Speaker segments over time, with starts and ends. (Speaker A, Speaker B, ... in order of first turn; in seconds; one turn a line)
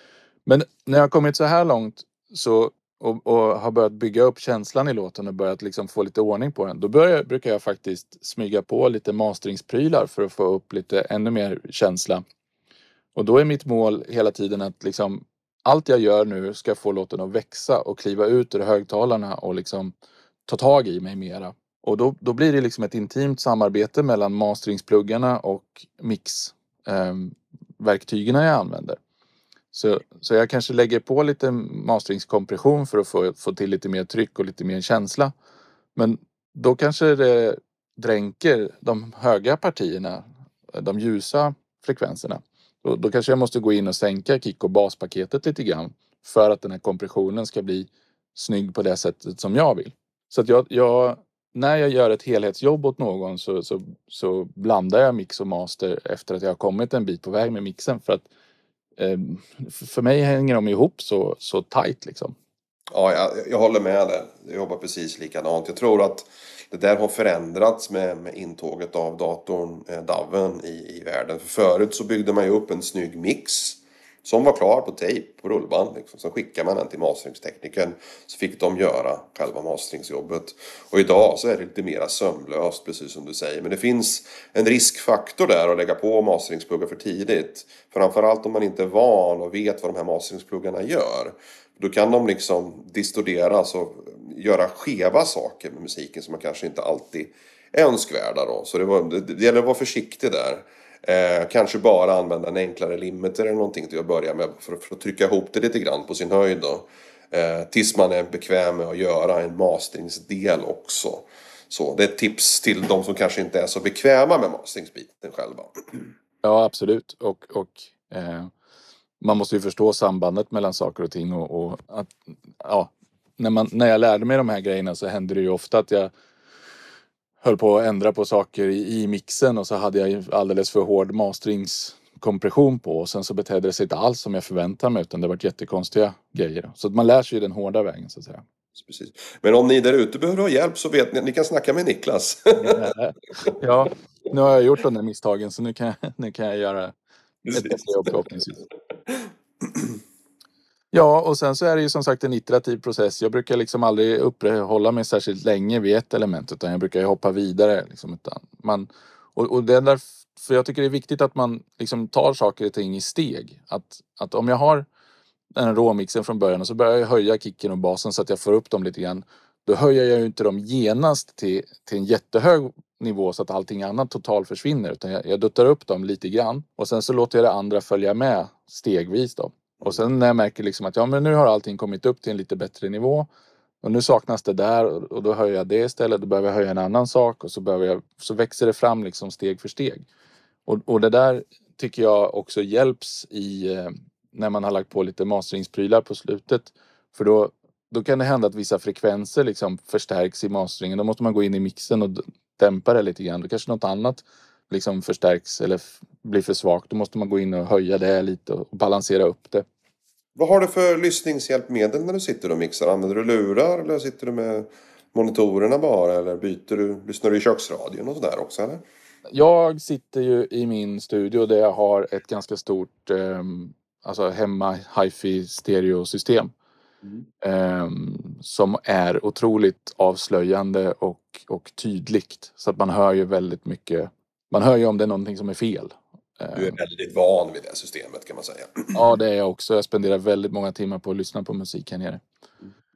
Speaker A: 0.5-12.2
Speaker A: 13.1-19.9
Speaker A: 20.5-29.0
Speaker A: 29.7-35.3
Speaker A: 36.0-58.3
Speaker A: 59.0-62.3
Speaker B: 62.9-116.1
Speaker A: 116.4-118.5
Speaker A: 119.2-126.1
Speaker A: 127.4-138.4
Speaker B: 138.8-142.9
Speaker A: 142.6-146.9
Speaker B: 147.4-148.1
Speaker A: 147.5-148.7
Speaker B: 149.1-150.0
Speaker A: 150.9-164.8
Speaker A: 165.5-183.3
Speaker A: 183.8-190.1
Speaker A: 190.7-209.6
Speaker B: 210.3-218.8
Speaker A: 219.3-226.5
Speaker A: 227.4-236.8
Speaker B: 236.6-239.0
Speaker A: 238.9-242.2